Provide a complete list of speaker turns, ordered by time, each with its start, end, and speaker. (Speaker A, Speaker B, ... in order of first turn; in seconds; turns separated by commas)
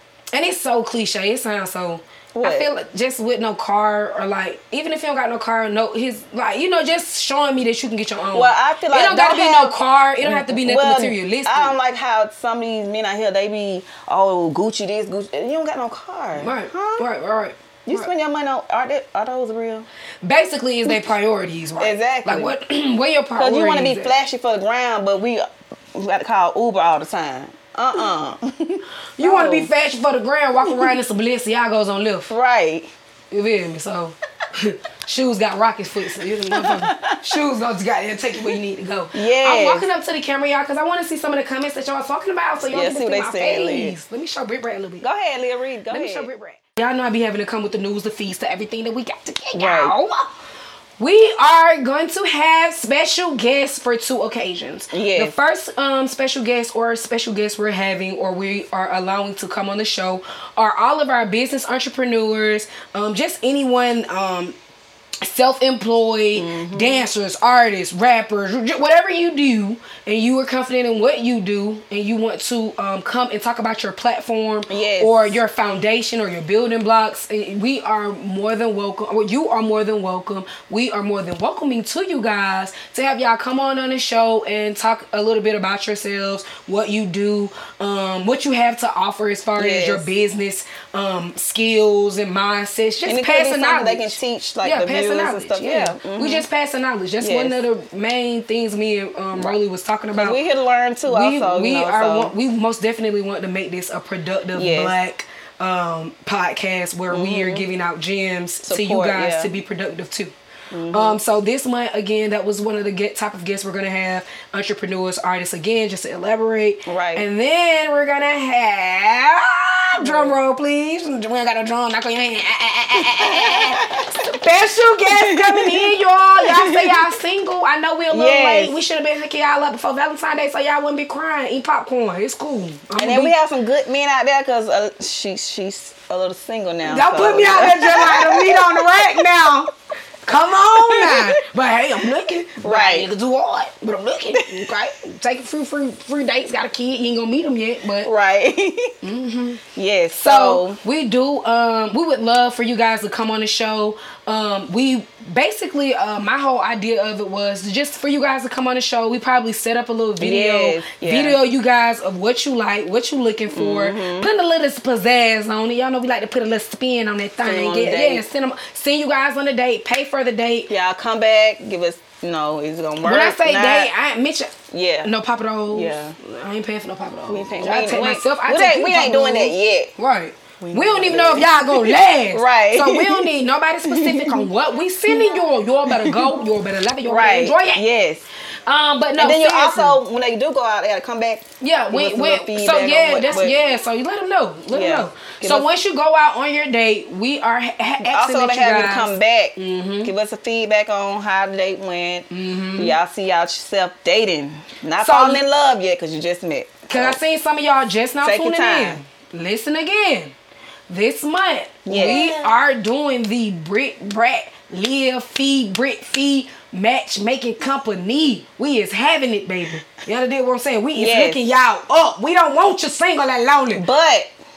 Speaker A: 0.3-11.8, Speaker B: 2.4-2.7, Speaker B: 8.3-17.1, Speaker A: 16.4-18.1, Speaker B: 17.9-19.9, Speaker A: 20.2-24.1, Speaker B: 21.8-22.6, Speaker B: 23.4-29.7, Speaker A: 29.2-32.3, Speaker B: 30.6-31.0, Speaker B: 32.3-32.9, Speaker A: 33.3-45.1, Speaker B: 36.3-37.2, Speaker B: 39.1-39.9, Speaker B: 42.7-44.0, Speaker B: 45.0-46.3, Speaker A: 45.9-50.3, Speaker B: 49.5-50.0, Speaker A: 51.0-64.6, Speaker B: 54.9-55.3, Speaker A: 65.2-100.4, Speaker B: 66.4-67.1, Speaker B: 74.7-75.4, Speaker B: 89.6-90.1, Speaker B: 93.0-96.5, Speaker B: 97.2-97.6, Speaker B: 100.1-102.3, Speaker A: 101.1-110.3, Speaker B: 104.5-105.0, Speaker B: 107.1-107.7, Speaker B: 108.6-109.5, Speaker B: 110.7-111.2, Speaker A: 110.9-133.3, Speaker B: 116.9-117.2, Speaker B: 120.0-120.4, Speaker B: 123.0-124.2, Speaker B: 125.1-127.2, Speaker B: 128.1-128.8, Speaker B: 133.0-139.2, Speaker A: 136.8-139.7, Speaker A: 140.2-148.1, Speaker B: 140.7-141.4, Speaker B: 142.6-143.1, Speaker B: 144.3-144.7, Speaker B: 148.0-148.9, Speaker A: 149.0-149.6, Speaker B: 149.8-150.8, Speaker A: 150.2-170.7, Speaker B: 160.2-161.4, Speaker B: 163.5-164.3, Speaker B: 167.4-168.2, Speaker B: 170.7-173.9, Speaker A: 173.0-187.8, Speaker B: 174.7-175.1, Speaker B: 175.7-176.2, Speaker B: 177.3-179.9, Speaker B: 180.6-183.3, Speaker B: 183.9-184.5, Speaker B: 185.1-186.4, Speaker B: 187.1-188.2, Speaker A: 188.7-190.0, Speaker B: 189.2-193.6, Speaker A: 191.6-200.1, Speaker B: 194.7-195.7, Speaker B: 198.0-207.2, Speaker A: 202.3-203.0, Speaker A: 205.0-205.4, Speaker A: 206.9-210.3, Speaker B: 208.2-209.0, Speaker A: 210.9-223.9, Speaker B: 211.9-212.5, Speaker B: 221.0-221.4, Speaker B: 223.7-224.3